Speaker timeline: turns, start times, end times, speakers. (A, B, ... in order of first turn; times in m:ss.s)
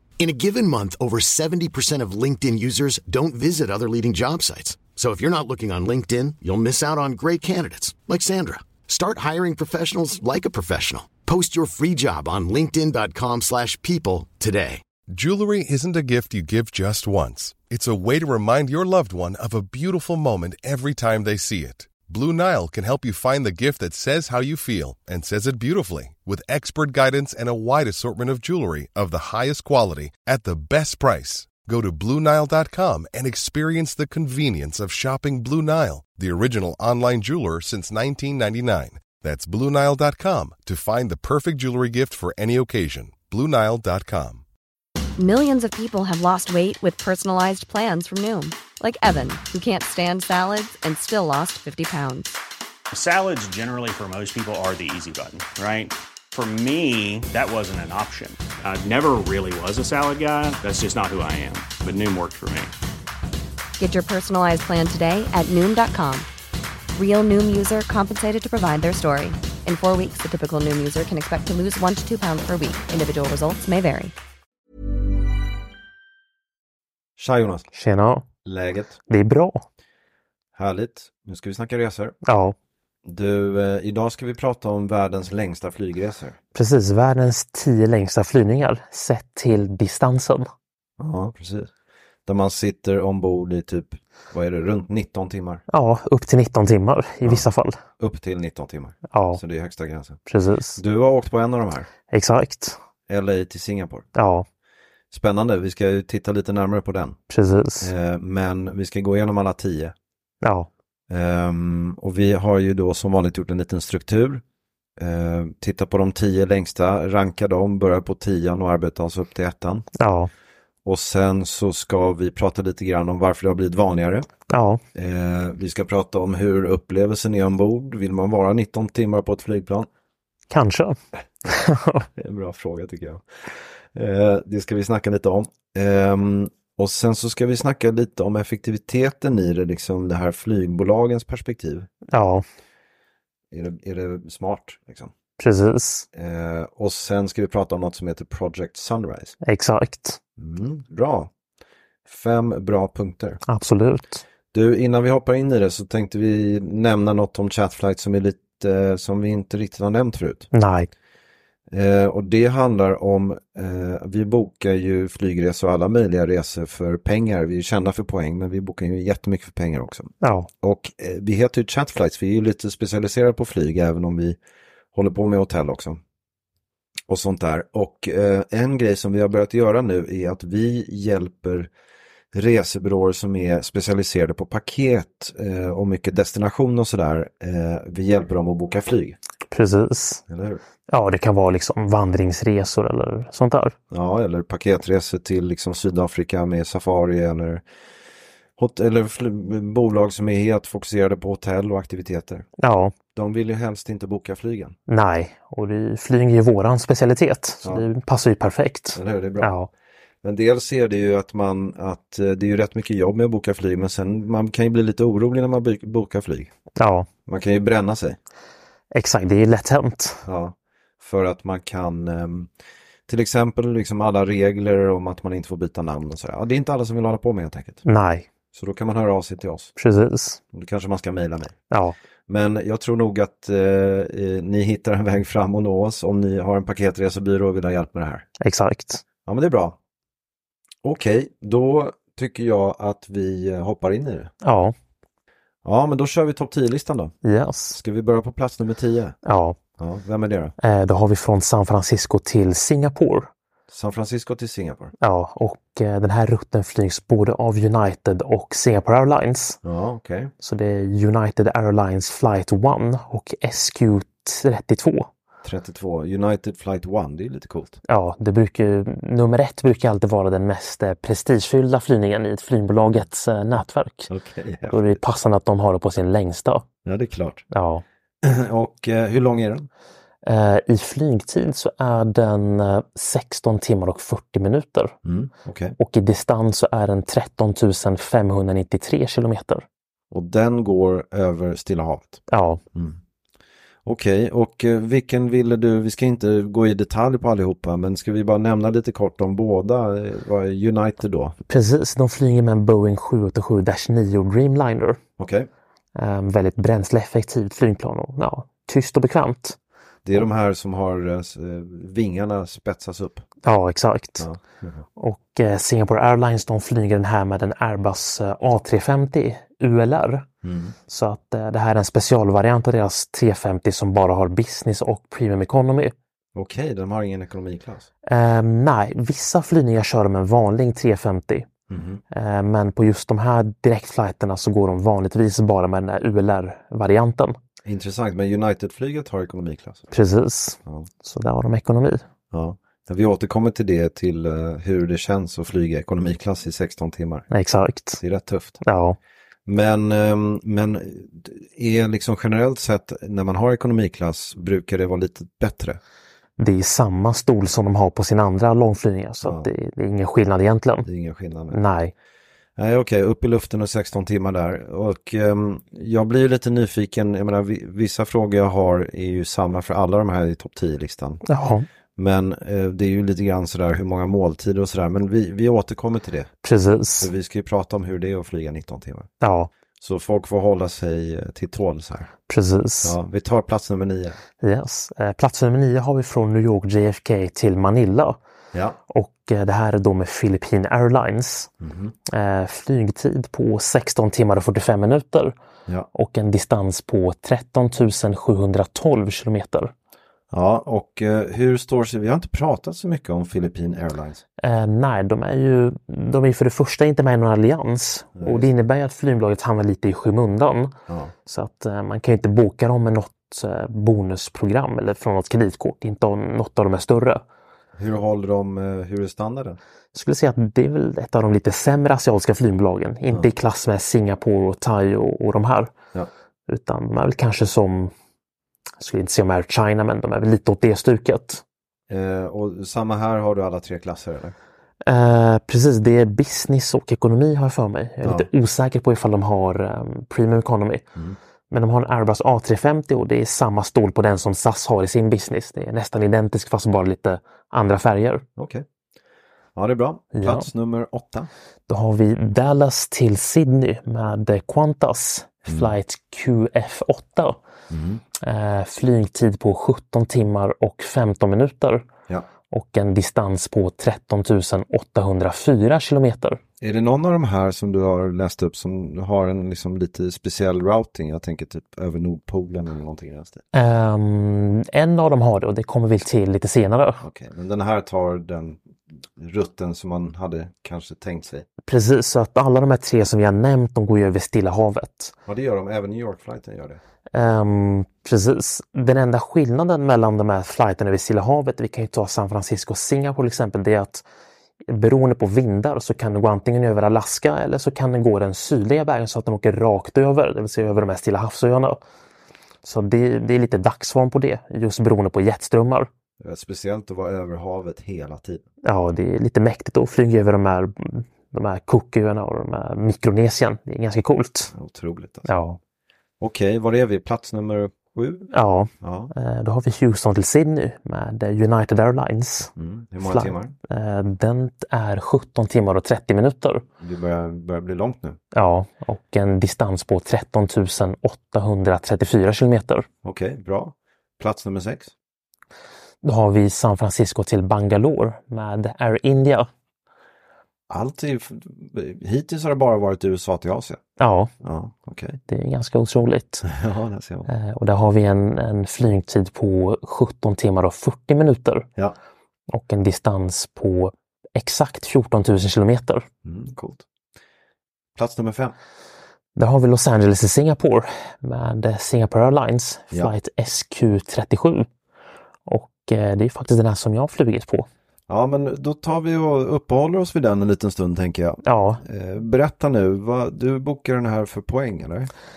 0:00.2-0:14.8 A
0:15.1-0:44.4 B
0:45.2-0:52.4 C
0:52.9-1:02.7 D
1:03.8-1:06.3 C
1:06.9-1:14.1 C
1:17.2-1:17.7 E
1:17.7-1:18.2 F
1:18.4-1:19.0 E
1:19.1-1:19.6 F
1:20.5-1:22.2 E
1:22.2-1:22.5 F
1:23.0-1:26.4 E
1:26.5-1:30.5 F
1:31.0-1:31.7 E
1:32.2-1:35.6 E
1:35.7-1:37.8 F
1:38.0-1:40.2 E
1:39.1-1:39.4 F
1:40.3-1:40.8 F
1:40.8-1:41.9 E
1:42.1-1:42.8 F
1:43.1-1:44.1 E
1:44.1-1:44.4 F
1:45.1-1:47.2 E
1:47.3-1:47.9 F
1:47.8-1:49.9 E
1:50.4-1:50.7 F
1:51.1-1:54.4 E
1:55.0-1:59.9 E
2:00.0-2:00.3 F
2:00.8-2:04.3 E
2:04.5-2:04.8 F
2:04.9-2:09.9 E
2:10.5-2:12.0 F
2:12.1-2:13.2 E
2:13.9-2:21.9 E
2:22.1-2:22.4 F
2:23.5-2:25.1 E
2:25.4-2:26.0 F
2:26.1-2:29.4 E
2:29.4-2:30.2 F
2:30.4-2:31.3 E
2:32.0-2:33.4 E
2:33.5-2:34.2 F
2:34.5-2:40.5 E
2:40.5-2:40.9 F
2:41.7-2:54.4 E
2:50.2-2:50.5 F
2:54.9-2:56.0 E
2:57.1-3:01.7 E
3:02.3-3:09.2 E
3:09.5-3:10.2 F
3:10.3-3:10.6 E
3:10.9-3:13.7 F
3:13.9-3:17.6 E
3:18.6-3:22.5 E
3:22.6-3:22.9 F
3:23.1-3:24.8 E
3:24.9-3:29.7 F
3:28.9-3:29.5 E
3:30.2-3:36.5 E
3:36.8-3:37.1 F
3:37.2-3:38.2 E
3:38.9-3:40.2 F
3:40.2-3:42.5 E
3:43.1-3:47.8 E
3:47.8-3:48.3 F
3:48.5-3:49.7 E
3:49.8-3:50.4 F
3:50.5-3:51.6 E
3:51.7-3:52.0 F
3:52.3-3:58.2 E
3:58.4-3:59.0 F
3:59.2-3:59.8 E
4:00.8-4:04.3 E
4:04.4-4:04.7 F
4:05.6-4:07.1 E
4:07.2-4:07.8 F
4:07.7-4:09.2 E
4:09.2-4:09.6 F
4:09.8-4:10.5 E
4:10.6-4:13.3 F
4:13.7-4:14.9 E
4:15.0-4:19.6 F
4:19.6-4:20.3 E
4:20.4-4:25.1 F
4:25.4-4:27.8 E
4:27.9-4:34.1 F
4:34.1-4:35.0 E
4:34.7-4:36.6 F
4:36.8-4:37.4 E
4:37.5-4:37.8 F
4:38.2-4:39.7 E
4:40.2-4:45.0 F
4:45.0-4:45.8 E
4:45.8-4:49.6 F
4:50.1-4:52.2 E
4:52.3-4:52.6 F
4:52.7-4:53.0 E
4:53.8-5:01.4 E
5:01.5-5:05.0 F
5:05.2-5:05.5 E
5:05.9-5:09.6 F
5:10.0-5:13.2 E
5:13.4-5:14.3 F
5:14.2-5:14.8 E
5:15.0-5:20.3 F
5:20.4-5:20.7 E
5:20.9-5:25.9 F
5:26.3-5:27.9 E
5:28.0-5:31.5 F
5:31.7-5:32.0 E
5:32.1-5:37.4 F
5:37.6-5:39.9 E
5:39.9-5:42.0 F
5:42.3-5:47.3 E
5:47.3-5:48.0 F
5:48.0-5:48.6 E
5:48.6-5:49.0 F
5:49.4-5:55.8 E
5:56.4-6:00.8 F
5:59.2-5:59.5 E
6:00.8-6:01.6 E
6:01.5-6:01.9 F
6:02.6-6:11.2 E
6:11.2-6:11.6 F
6:12.0-6:16.3 E
6:16.4-6:17.1 F
6:17.0-6:19.1 E
6:19.2-6:19.5 F
6:19.8-6:22.1 E
6:22.3-6:23.0 F
6:22.8-6:24.2 E
6:24.4-6:28.2 F
6:28.5-6:28.8 E
6:28.9-6:31.5 F
6:31.6-6:31.9 E
6:32.1-6:35.3 F
6:35.9-6:39.7 F
6:40.3-6:44.2 E
6:44.4-6:57.2 F
6:48.2-6:48.5 E
6:50.9-6:51.1 E
6:57.7-6:59.6 E
6:59.9-7:05.7 F
7:06.5-7:07.9 F
7:08.8-7:11.4 F
7:11.9-7:14.4 E
7:14.8-7:20.8 F
7:18.0-7:18.3 E
7:21.5-7:28.2 F
7:28.4-7:28.6 E
7:29.5-7:31.3 E
7:30.1-7:30.5 F
7:31.7-7:37.4 F
7:35.5-7:35.7 E
7:37.7-7:38.0 E
7:38.2-7:41.9 F
7:42.5-7:46.4 F
7:46.6-7:53.4 E
7:53.5-7:57.0 F
7:57.0-8:01.4 E
8:01.7-8:05.1 F
8:05.2-8:06.8 E
8:07.1-8:14.0 F
8:14.7-8:21.8 F
8:22.6-8:25.9 F
8:26.2-8:28.4 E
8:28.6-8:34.5 F
8:34.5-8:35.3 E
8:35.2-8:35.6 F
8:36.2-8:39.1 E
8:38.3-8:46.6 F
8:42.6-8:43.5 E
8:46.8-8:48.2 E
8:48.3-8:52.9 F
8:53.0-8:54.9 E
8:56.0-8:59.5 F
9:00.7-9:03.8 E
9:04.0-9:04.3 F
9:04.4-9:05.2 E
9:05.3-9:06.4 F
9:06.4-9:07.3 E
9:07.3-9:11.7 F
9:12.5-9:16.0 F
9:16.2-9:16.8 E
9:18.0-9:18.5 E
9:19.4-9:24.7 F
9:25.5-9:27.6 F
9:28.1-9:35.1 E
9:31.4-9:31.8 F